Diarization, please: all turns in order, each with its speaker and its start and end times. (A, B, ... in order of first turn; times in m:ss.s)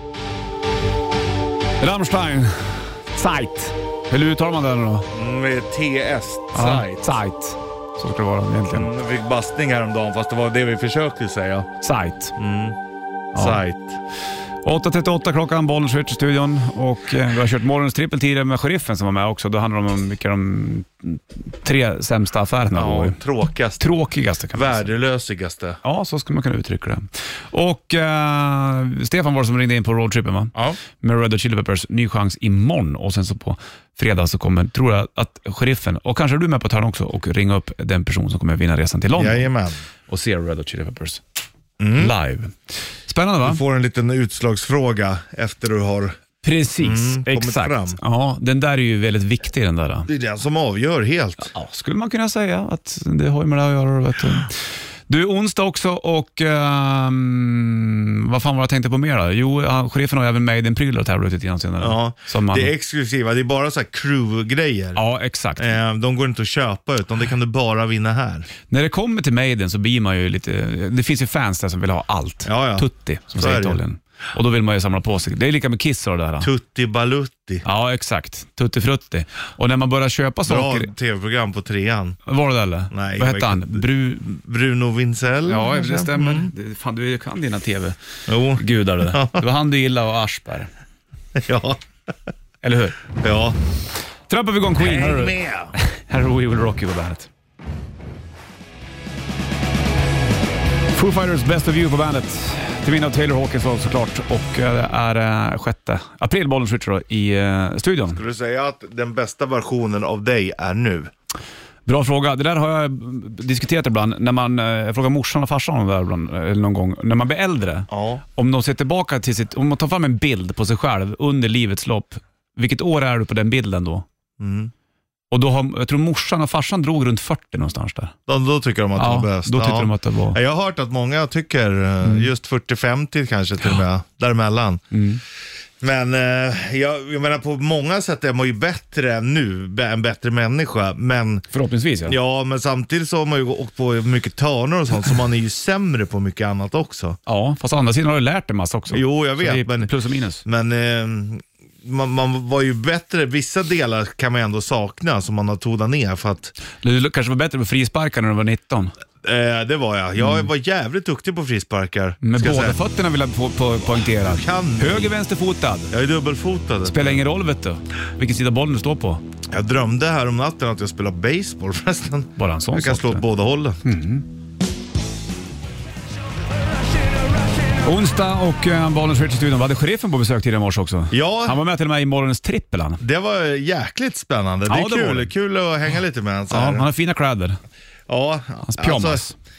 0:01.8-0:05.1 A
0:05.1-0:07.2 B
0:06.5-0:08.9 A
0:08.7-0:11.7 B
0:11.8-0:12.4 A
0:12.4-0:12.8 B
0:13.3-0:14.0 B
0:13.4-0:13.6 A
0:14.6-0:23.2 A
0:22.7-0:23.9 B
0:23.8-0:24.9 A
0:24.5-0:25.8 B
0:25.8-0:39.5 A
0:39.2-0:39.8 B
0:40.1-0:41.2 A
0:41.8-0:42.1 B
0:42.0-0:42.6 A
0:43.1-0:43.6 A
0:43.4-0:46.2 B
0:46.4-0:50.1 A
0:46.8-0:48.0 B
0:50.1-0:51.5 B
0:51.5-1:02.7 A
1:01.8-1:05.0 B
1:05.0-1:05.8 A
1:05.6-1:08.5 B
1:08.7-1:16.5 A
1:12.4-1:13.8 B
1:16.4-1:17.6 B
1:17.6-1:20.9 A
1:20.5-1:22.2 B
1:22.3-1:24.3 A
1:22.9-1:26.5 B
1:25.5-1:28.0 A
1:28.3-1:29.4 B
1:28.6-1:30.7 A
1:31.4-1:31.8 B
1:32.6-1:33.0 A
1:33.1-1:33.6 B
1:34.3-1:37.3 A
1:34.8-1:35.7 B
1:40.9-1:48.2 A
1:48.1-1:51.1 B
1:51.9-2:04.0 A
1:57.9-1:58.2 B
2:04.4-2:04.7 B
2:05.3-2:08.1 A
2:08.3-2:14.8 B
2:09.0-2:10.4 A
2:14.9-2:15.2 A
2:15.8-2:21.5 B
2:21.5-2:22.2 A
2:22.1-2:27.2 B
2:27.3-2:30.4 A
2:28.9-2:29.9 B
2:30.4-2:36.6 B
2:36.8-2:38.9 A
2:39.2-2:42.8 B
2:40.2-2:40.5 A
2:42.2-2:45.9 A
2:44.0-2:45.1 B
2:45.9-2:47.2 B
2:46.8-2:49.2 A
2:49.5-2:53.8 B
2:52.4-2:53.2 A
2:53.8-2:54.3 A
2:57.8-3:03.0 A
3:01.1-3:01.6 B
3:03.0-3:06.9 B
3:04.7-3:05.3 A
3:06.5-3:07.6 A
3:08.1-3:09.2 B
3:08.6-3:09.4 A